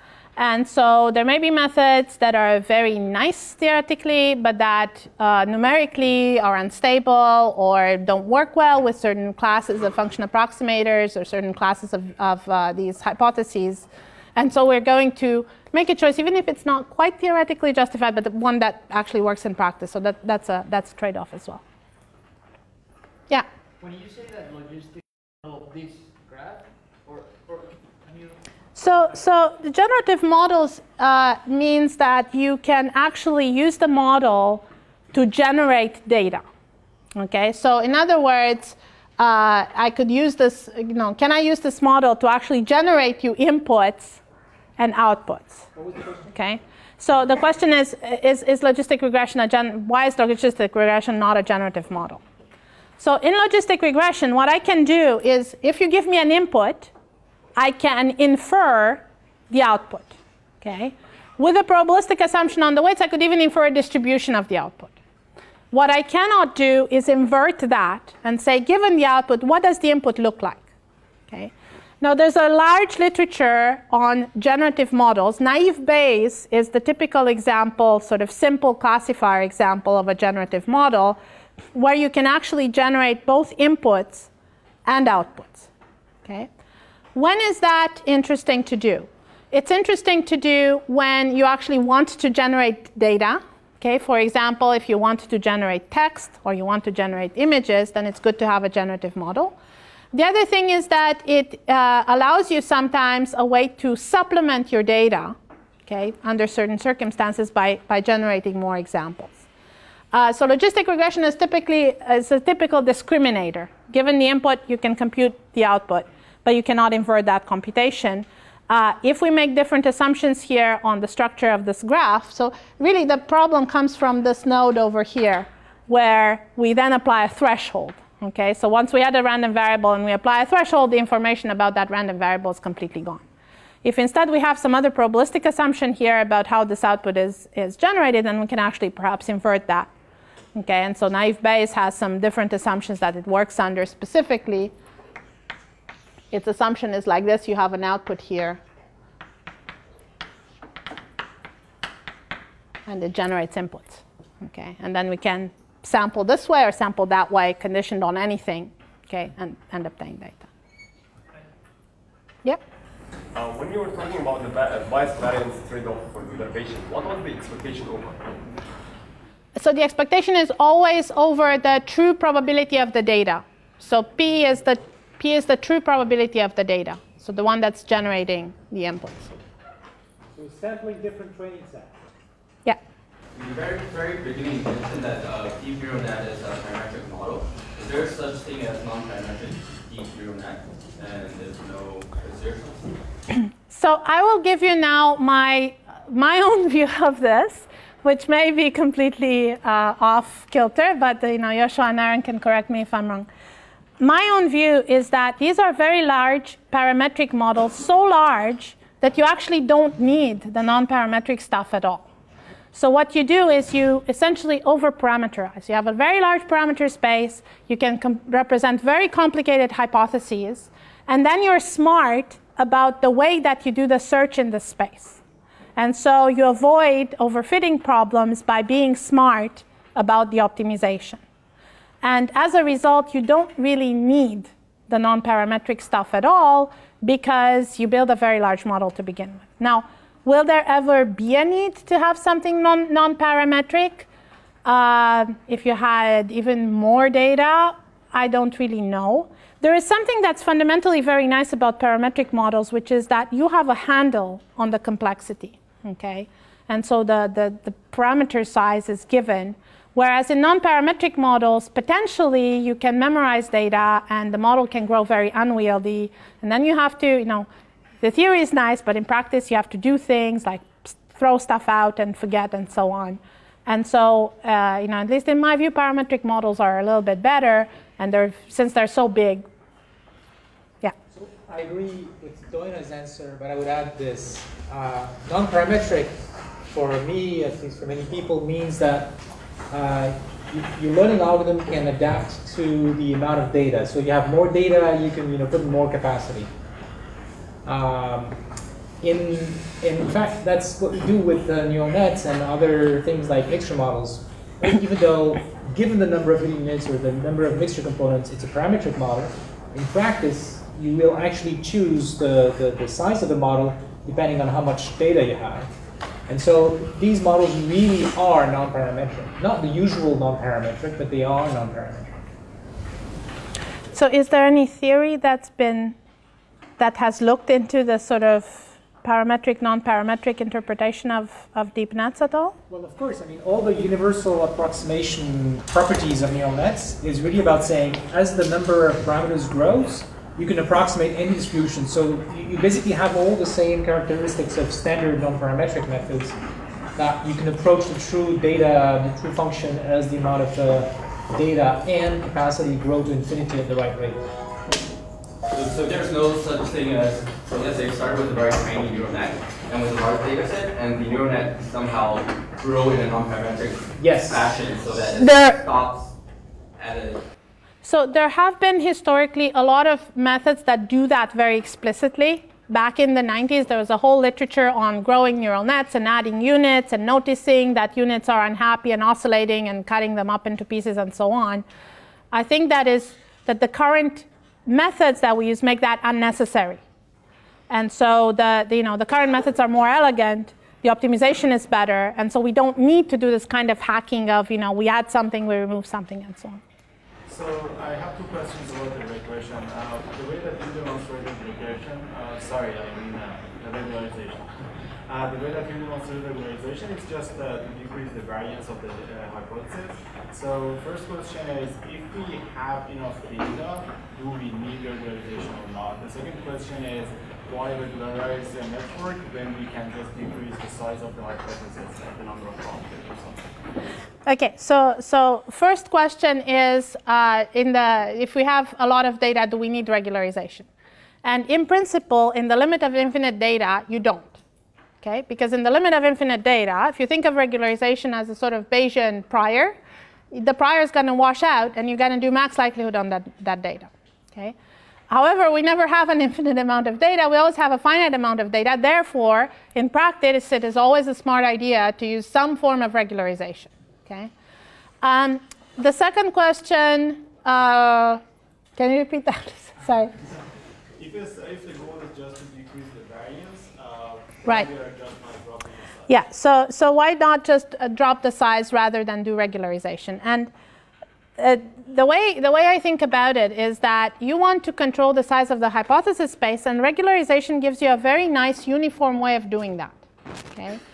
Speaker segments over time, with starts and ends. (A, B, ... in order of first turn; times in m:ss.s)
0:00.4-0:21.6 A
0:23.8-0:28.4 B
0:28.8-0:36.4 A
0:37.2-0:44.2 A
0:44.8-0:45.7 A
0:45.8-0:46.1 B
0:46.3-0:52.2 A
0:53.0-0:56.9 A
0:57.6-1:04.9 A
1:05.7-1:10.7 A
1:11.3-1:21.2 A
1:21.7-1:24.3 A
1:24.9-1:25.7 A
1:27.2-1:39.6 A
1:40.1-1:49.4 A
1:50.1-2:13.2 A
2:13.8-2:19.9 A
2:20.6-2:24.7 A
2:26.3-2:28.6 A
2:32.9-2:40.5 A
2:43.3-2:48.4 C
2:49.6-2:59.4 A
3:00.3-3:02.0 D
3:03.4-3:12.9 E
3:13.7-3:23.3 A
3:24.0-3:32.1 A
3:32.7-3:45.2 A
3:45.8-3:51.2 A
3:52.0-4:04.1 A
4:04.6-4:27.5 A
4:28.0-4:39.5 A
4:41.1-4:49.2 D
4:49.7-4:56.5 D
4:57.6-5:15.7 D
5:16.3-5:22.1 D
5:23.9-5:26.0 A
5:26.8-5:32.6 A
5:32.7-5:46.4 D
5:47.0-5:54.3 D
5:55.5-6:06.1 E
6:04.0-6:04.5 D
6:06.8-6:07.2 E
6:07.8-6:21.6 A
6:22.3-6:26.8 A
6:27.7-6:36.6 A
6:37.3-6:44.5 F
6:45.1-7:03.5 F
7:04.3-7:10.7 A
7:11.2-7:14.4 A
7:15.0-7:19.8 A
7:20.3-7:24.6 A
7:25.1-7:34.3 A
7:35.0-7:38.2 A
7:38.8-7:40.1 A
7:41.0-7:46.2 F
7:46.1-7:50.5 A
7:51.4-8:00.8 A